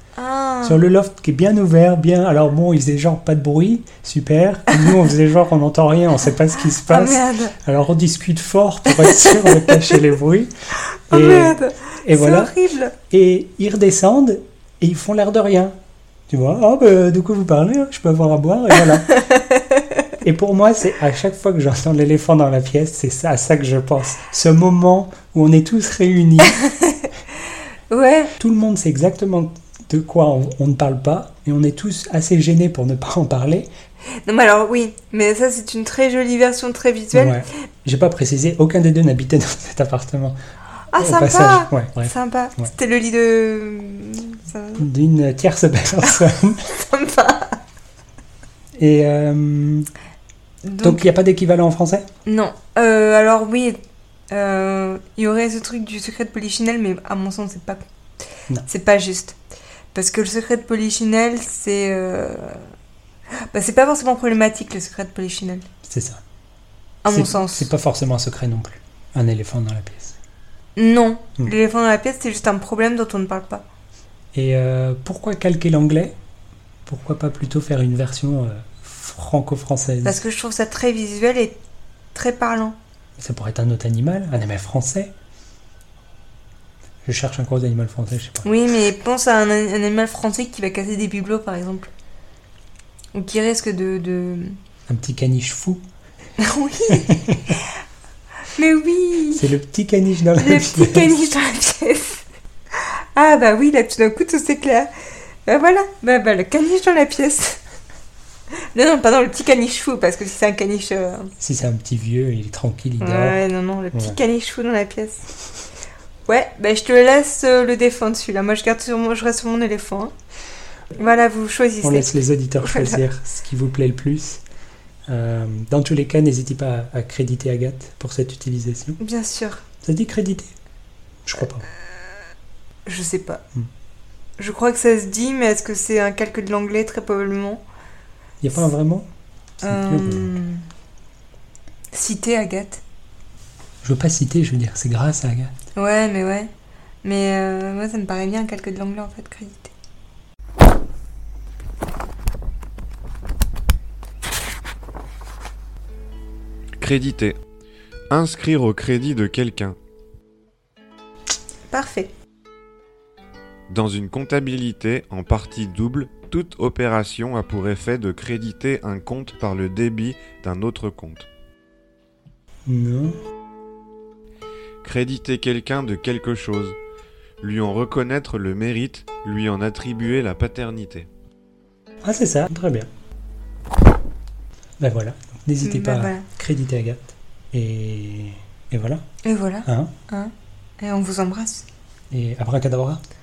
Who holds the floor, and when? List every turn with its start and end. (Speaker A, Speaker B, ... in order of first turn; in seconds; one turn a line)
Speaker A: 0.1-0.8
Speaker B: 0.6-10.5
Speaker A: 6.7-7.5
Speaker A: 9.0-10.0
Speaker A: 10.9-12.9
Speaker B: 11.1-15.7
Speaker B: 16.3-19.1
Speaker A: 19.1-20.0
Speaker B: 20.2-26.6
Speaker A: 26.6-27.1
Speaker A: 27.9-28.3
Speaker B: 28.4-33.7
Speaker A: 34.2-37.4
Speaker B: 37.1-40.4
Speaker A: 40.9-44.9
Speaker B: 41.0-42.7
Speaker B: 44.8-46.6
Speaker A: 46.8-47.6
Speaker B: 48.8-49.9
Speaker A: 50.6-51.0
Speaker B: 50.8-52.0
Speaker A: 52.2-53.8
Speaker A: 54.3-57.8
Speaker A: 58.6-59.4
Speaker A: 59.9-62.6
Speaker A: 63.5-65.6
Speaker B: 65.8-66.2
Speaker A: 67.0-67.7
Speaker B: 67.1-70.2
Speaker A: 70.8-73.6
Speaker B: 74.3-76.1
Speaker B: 76.8-80.2
Speaker A: 80.0-81.6
Speaker A: 82.1-82.8
Speaker B: 83.2-85.1
Speaker B: 87.0-88.5
Speaker A: 88.4-91.9
Speaker A: 93.1-94.6
Speaker B: 94.9-95.8
Speaker A: 96.4-97.6
Speaker B: 97.1-97.4
Speaker A: 98.5-99.5
Speaker B: 99.3-101.2
Speaker A: 100.4-104.9
Speaker A: 105.5-107.6
Speaker A: 108.7-111.3
Speaker B: 111.4-113.4
Speaker A: 113.0-115.2
Speaker B: 113.9-114.2
Speaker A: 116.2-120.1
Speaker A: 120.9-123.0
Speaker B: 121.8-124.4
Speaker B: 125.1-129.0
Speaker A: 129.0-129.6
Speaker B: 129.8-130.5
Speaker B: 131.2-131.7
Speaker A: 132.8-133.4
Speaker A: 134.4-137.6
Speaker B: 138.4-139.1
Speaker B: 139.6-140.4
Speaker A: 139.6-140.6
Speaker A: 141.9-142.8
Speaker B: 143.8-145.5
Speaker A: 145.7-146.5
Speaker A: 147.0-149.7
Speaker C: 156.8-157.4
Speaker C: 158.1-159.8
Speaker A: 161.7-162.1
Speaker C: 163.7-171.3
Speaker B: 172.7-173.2
Speaker C: 174.8-176.8
Speaker C: 177.4-181.1
Speaker B: 182.0-182.9
Speaker B: 184.8-189.0
Speaker A: 185.6-186.2
Speaker A: 189.2-191.7
Speaker B: 189.6-189.9
Speaker B: 192.1-193.0